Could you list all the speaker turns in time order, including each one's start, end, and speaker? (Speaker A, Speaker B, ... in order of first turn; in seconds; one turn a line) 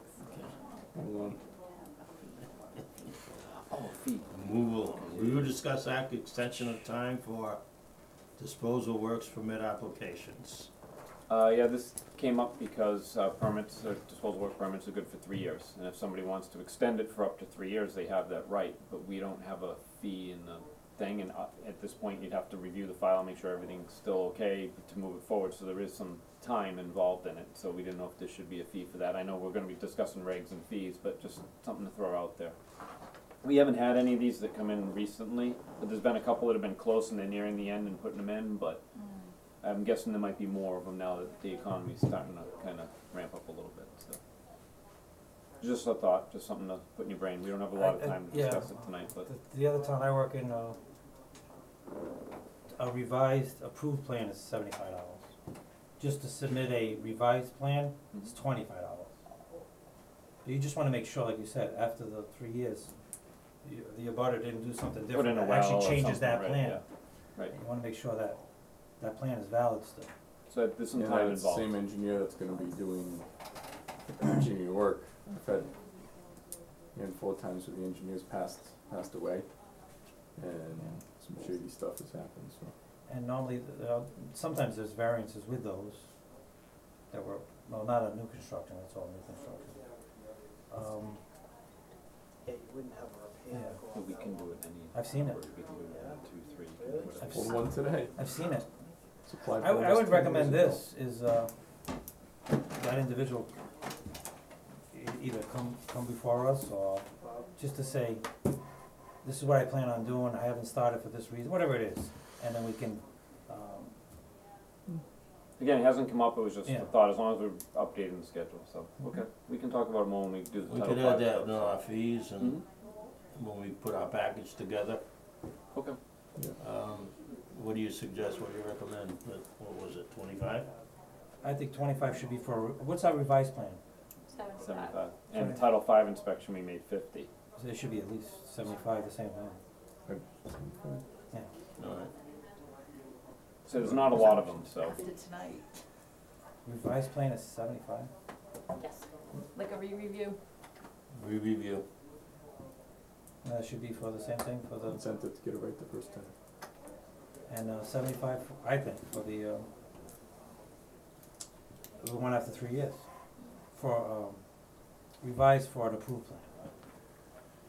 Speaker A: 0.2-0.5
Speaker B: 0.9-1.4
Speaker C: 3.5-4.3
Speaker A: 4.3-7.6
Speaker C: 5.1-5.4
Speaker A: 8.4-10.7
Speaker C: 11.3-32.5
Speaker C: 33.4-38.8
Speaker C: 39.6-44.2
Speaker C: 45.6-49.3
Speaker D: 47.7-50.8
Speaker D: 52.7-55.2
Speaker D: 56.0-59.1
Speaker D: 60.4-62.9
Speaker D: 63.6-66.8
Speaker C: 65.1-66.8
Speaker D: 67.3-70.1
Speaker C: 70.5-71.8
Speaker B: 70.9-73.3
Speaker B: 74.0-75.8
Speaker B: 76.9-82.7
Speaker D: 83.0-86.1
Speaker D: 87.1-89.8
Speaker D: 90.7-91.2
Speaker E: 92.5-94.4
Speaker D: 93.5-93.8
Speaker C: 93.9-97.5
Speaker D: 94.9-95.4
Speaker E: 95.9-96.2
Speaker E: 96.8-97.2
Speaker D: 97.2-98.7
Speaker B: 97.3-98.2
Speaker B: 99.2-100.8
Speaker D: 99.5-101.5
Speaker D: 102.5-103.5
Speaker D: 104.9-108.2
Speaker D: 109.2-113.9
Speaker C: 115.6-121.8
Speaker D: 116.6-116.9
Speaker A: 120.7-122.6
Speaker A: 123.3-125.0
Speaker A: 126.6-130.7
Speaker D: 131.4-133.8
Speaker F: 134.3-135.1
Speaker C: 134.6-137.3
Speaker D: 135.3-135.6
Speaker D: 137.6-139.6
Speaker B: 140.1-141.0
Speaker A: 141.8-142.1
Speaker C: 143.7-145.0
Speaker B: 143.7-144.4
Speaker F: 144.8-145.6
Speaker D: 146.6-148.1
Speaker F: 148.8-150.4
Speaker A: 151.1-151.8
Speaker D: 153.4-155.0
Speaker B: 154.8-156.3
Speaker D: 157.5-159.7
Speaker D: 162.0-163.0
Speaker D: 163.7-164.4
Speaker D: 165.2-166.7